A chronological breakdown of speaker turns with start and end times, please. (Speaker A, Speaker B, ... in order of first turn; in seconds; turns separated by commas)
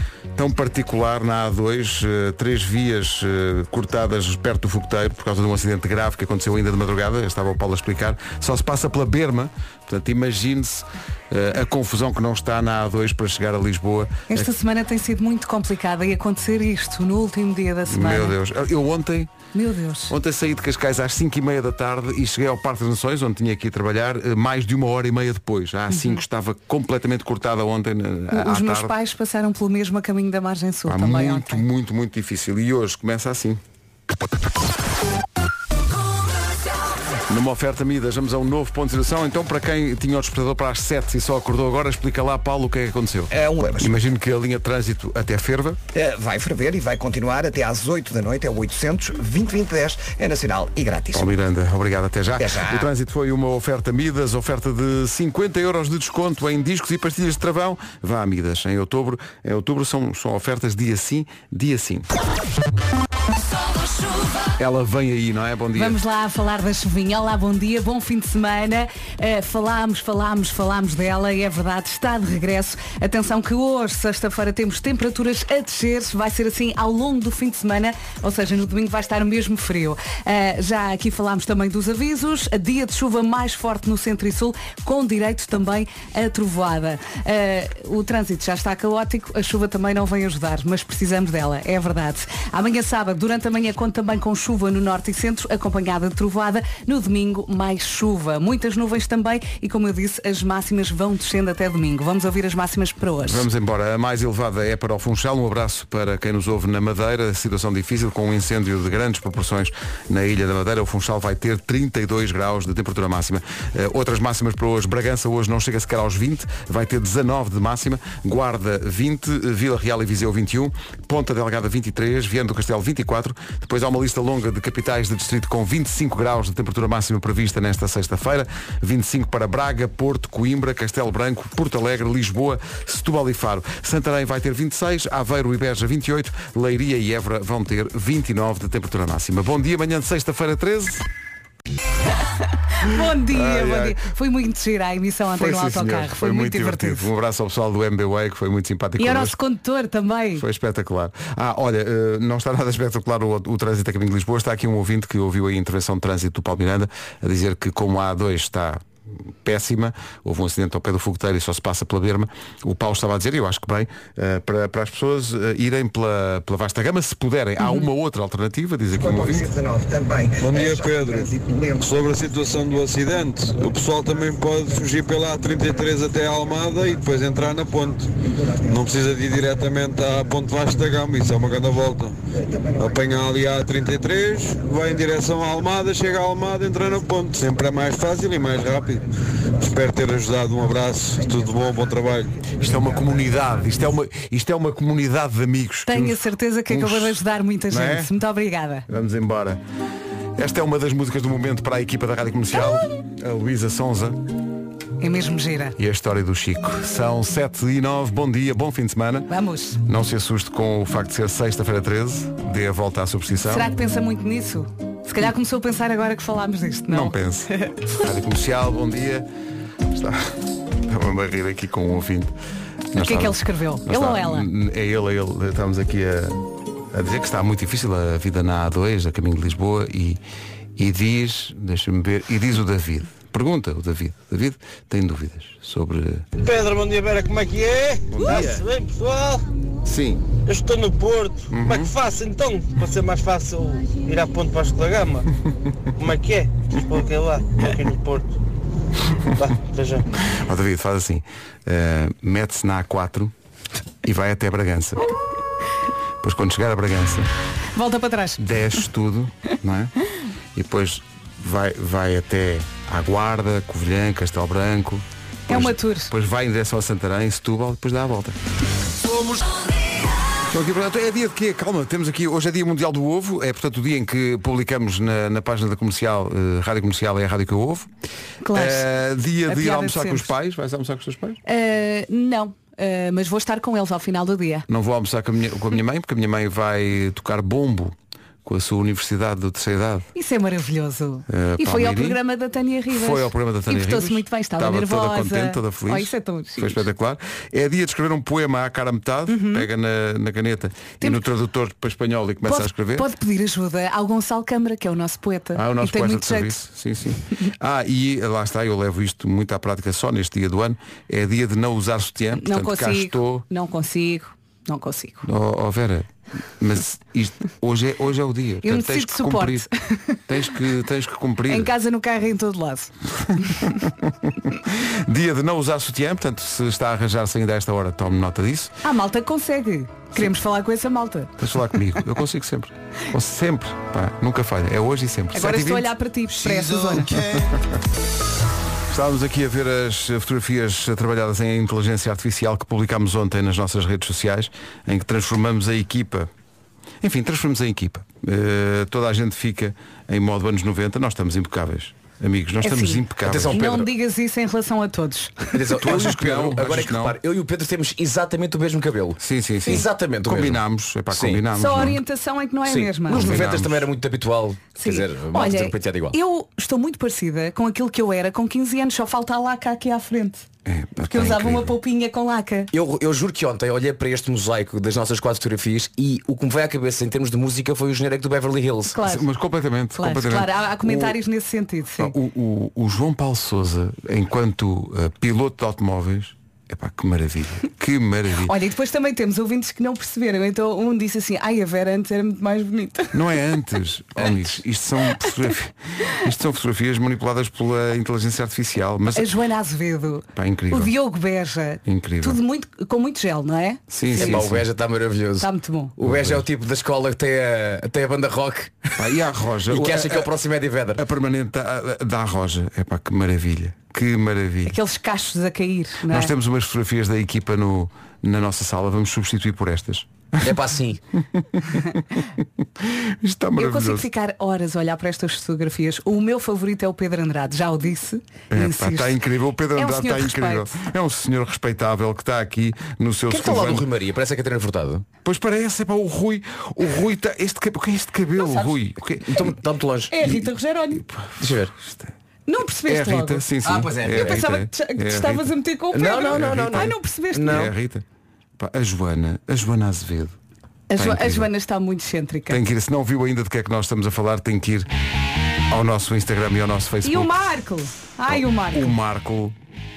Speaker A: 0.3-14.5, Speaker B: 14.3-18.4, Speaker A: 17.9-19.3, Speaker B: 19.5-20.1, Speaker A: 20.1-28.9, Speaker B: 25.9-26.2, Speaker B: 28.3-31.6, Speaker A: 30.9-33.6, Speaker A: 37.3-45.8, Speaker C: 43.3-43.9, Speaker C: 45.9-51.3, Speaker A: 51.1-62.1, Speaker C: 52.4-52.9, Speaker A: 64.6-66.0, Speaker B: 65.8-103.5, Speaker A: 103.2-141.0, Speaker B: 142.7-147.1, Speaker A: 143.2-144.0, Speaker A: 145.4-149.4, Speaker B: 149.0-150.4, Speaker A: 150.4-169.5, Speaker C: 169.0-172.0, Speaker D: 170.4-178.1, Speaker D: 178.7-182.2, Speaker D: 182.8-189.1, Speaker D: 189.6-192.4, Speaker A: 192.6-197.2, Speaker B: 195.9-198.9, Speaker A: 197.7-198.1, Speaker A: 198.9-199.6, Speaker A: 200.4-204.2, Speaker B: 205.0-205.8, Speaker A: 205.8-209.3, Speaker B: 209.3-209.8, Speaker A: 209.8-213.7, Speaker B: 213.5-217.7, Speaker A: 216.9-219.3, Speaker A: 219.9-220.3, Speaker A: 220.8-222.3, Speaker A: 222.9-230.2, Speaker B: 222.9-224.5, Speaker A: 230.8-236.2, Speaker E: 236.4-239.4, Speaker A: 238.1-238.7, Speaker A: 239.9-240.2, Speaker E: 240.4-245.3, Speaker A: 241.5-241.9, Speaker E: 246.0-248.3, Speaker E: 249.4-250.0, Speaker A: 250.3-253.3, Speaker A: 254.0-255.0, Speaker A: 256.2-257.3, Speaker B: 257.8-258.4, Speaker A: 258.4-259.9, Speaker A: 260.6-268.4, Speaker B: 265.5-266.1, Speaker A: 269.1-269.4, Speaker A: 270.5-277.9, Speaker B: 278.4-278.9, Speaker A: 278.5-281.4, Speaker B: 279.5-280.3, Speaker B: 281.4-284.7, Speaker A: 284.7-290.1, Speaker B: 290.1-296.9, Speaker A: 291.3-292.2, Speaker A: 292.9-303.1, Speaker B: 299.3-299.7, Speaker B: 302.5-306.6, Speaker A: 305.6-313.4, Speaker B: 312.3-315.3, Speaker A: 315.2-319.7, Speaker B: 318.6-320.2, Speaker A: 320.3-321.7, Speaker B: 321.5-323.7, Speaker A: 323.6-328.7, Speaker B: 328.8-331.4, Speaker A: 331.4-335.9, Speaker B: 335.3-337.2, Speaker A: 336.5-337.7, Speaker A: 338.9-346.3, Speaker A: 347.0-353.6, Speaker B: 352.6-355.6, Speaker F: 353.2-353.9, Speaker F: 355.5-361.4, Speaker A: 355.8-357.2, Speaker A: 359.2-362.0, Speaker B: 361.6-363.4, Speaker F: 362.7-366.1, Speaker A: 363.1-363.9, Speaker B: 364.8-370.5, Speaker A: 370.7-371.7, Speaker B: 371.1-372.7, Speaker F: 372.7-379.0, Speaker B: 378.9-379.3, Speaker A: 379.0-381.2, Speaker B: 380.0-382.1, Speaker A: 382.0-388.5, Speaker B: 388.5-393.2, Speaker A: 393.1-399.3, Speaker B: 399.1-404.4, Speaker A: 400.4-400.9, Speaker A: 401.9-402.4, Speaker A: 403.9-404.6, Speaker F: 404.2-409.0, Speaker B: 405.4-405.9, Speaker A: 406.0-406.4, Speaker A: 409.0-410.3, Speaker F: 409.7-411.0, Speaker A: 411.0-414.8, Speaker B: 414.7-416.3, Speaker A: 416.1-420.6, Speaker F: 420.4-421.0, Speaker A: 421.2-422.2, Speaker A: 422.8-424.1, Speaker B: 423.6-429.2, Speaker A: 428.5-433.9, Speaker B: 429.8-430.7, Speaker F: 433.3-435.1, Speaker A: 435.2-439.4, Speaker B: 438.4-438.7, Speaker F: 439.3-440.1, Speaker B: 440.1-441.0, Speaker A: 440.9-442.1, Speaker F: 441.4-441.7, Speaker B: 442.5-443.5, Speaker A: 442.9-445.5, Speaker F: 443.6-444.4, Speaker B: 444.1-447.7, Speaker F: 445.9-447.7, Speaker A: 446.3-446.9, Speaker A: 447.5-448.0, Speaker A: 448.6-450.4, Speaker B: 450.9-452.6, Speaker A: 451.0-451.5, Speaker A: 452.5-454.9, Speaker A: 455.7-457.3, Speaker B: 457.0-458.9, Speaker A: 458.3-459.6